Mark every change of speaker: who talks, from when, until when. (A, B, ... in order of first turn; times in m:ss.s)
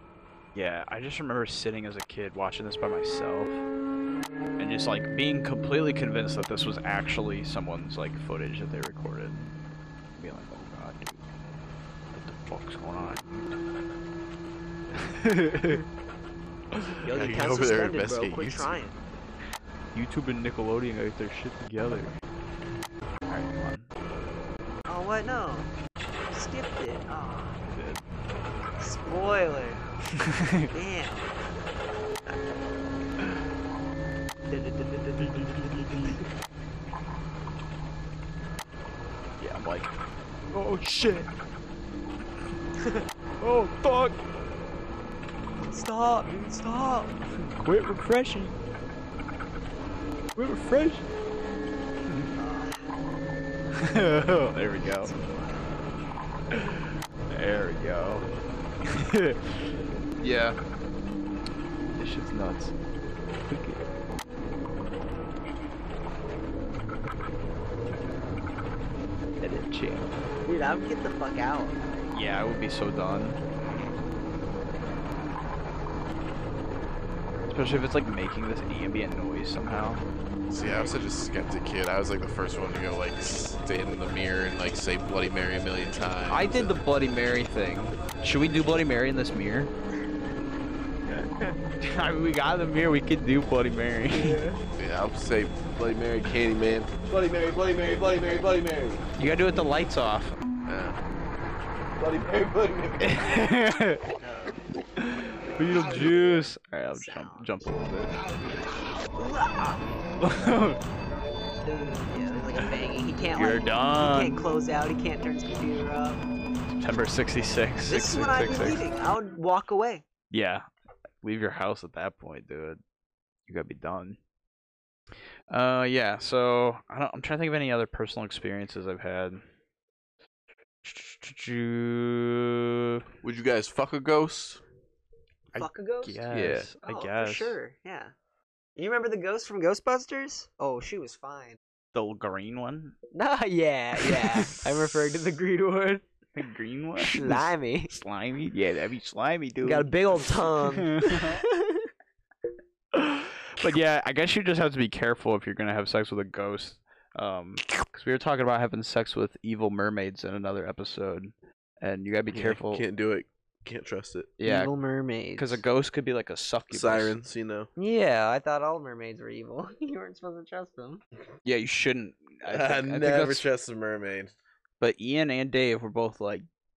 0:00.6-0:03.6 A
0:04.6-0:09.6 A
0:10.1-0:11.2 A
0:12.1-0:13.6 A
0:14.9-0:15.8 A
0:16.8-0:17.4 A
0:17.0-0:19.0 B
0:17.1-0:18.7 C
0:19.9-0:22.2 A
0:23.3-0:23.9 A
0:24.9-0:25.7 B
0:26.3-0:27.6 B
0:27.7-0:28.0 A
0:28.8-0:29.8 B
0:30.2-0:30.7 A
0:30.7-0:31.3 B
0:34.5-0:36.3 B
0:35.2-0:36.2 A
0:39.4-0:39.9 A
0:40.5-0:41.3 A
0:43.4-0:44.2 A
0:45.6-0:47.2 B
0:47.4-0:48.6 A
0:50.4-0:51.0 A
0:52.4-0:52.9 B
0:53.8-0:55.1 A
0:53.8-0:55.8 B
0:56.5-0:58.3 A
0:58.8-0:59.6 A
1:00.2-1:00.6 A
1:02.0-1:02.7 A
1:03.5-1:03.8 A
1:09.4-1:10.2 A
1:10.4-1:11.8 B
1:12.1-1:13.4 A
1:17.5-1:20.0 A
1:20.5-1:26.8 C
1:20.6-1:21.0 B
1:26.3-1:29.7 A
1:31.1-1:31.6 B
1:31.8-1:34.4 A
1:34.1-1:34.6 B
1:34.8-1:39.0 C
1:39.2-1:40.4 A
1:40.7-1:41.0 C
1:42.0-1:43.2 C
1:43.0-1:44.1 A
1:44.2-1:44.6 B
1:45.0-1:48.2 A
1:45.9-1:46.4 B
1:46.9-1:47.6 B
1:49.2-1:49.8 B
1:50.2-1:50.8 A
1:51.6-1:56.2 B
1:53.4-1:54.4 A
1:56.8-1:58.8 A
1:57.9-2:00.0 B
2:00.3-2:00.6 A
2:01.2-2:02.8 A
2:03.5-2:04.2 A
2:05.5-2:09.4 A
2:10.8-2:13.0 A
2:13.2-2:14.6 C
2:15.5-2:17.6 A
2:15.6-2:18.1 B
2:18.8-2:21.6 B
2:21.9-2:23.0 A
2:23.1-2:26.1 B
2:24.2-2:24.5 A
2:26.3-2:31.4 A
2:27.0-2:27.9 B
2:29.6-2:31.9 B
2:32.9-2:42.8 A
2:42.3-2:44.3 C
2:44.4-2:44.7 A
2:44.4-2:45.6 B
2:45.4-2:47.2 A
2:46.7-2:47.7 C
2:47.8-2:51.0 B
2:51.4-2:53.4 A
2:52.5-2:54.3 C
2:54.8-2:56.4 A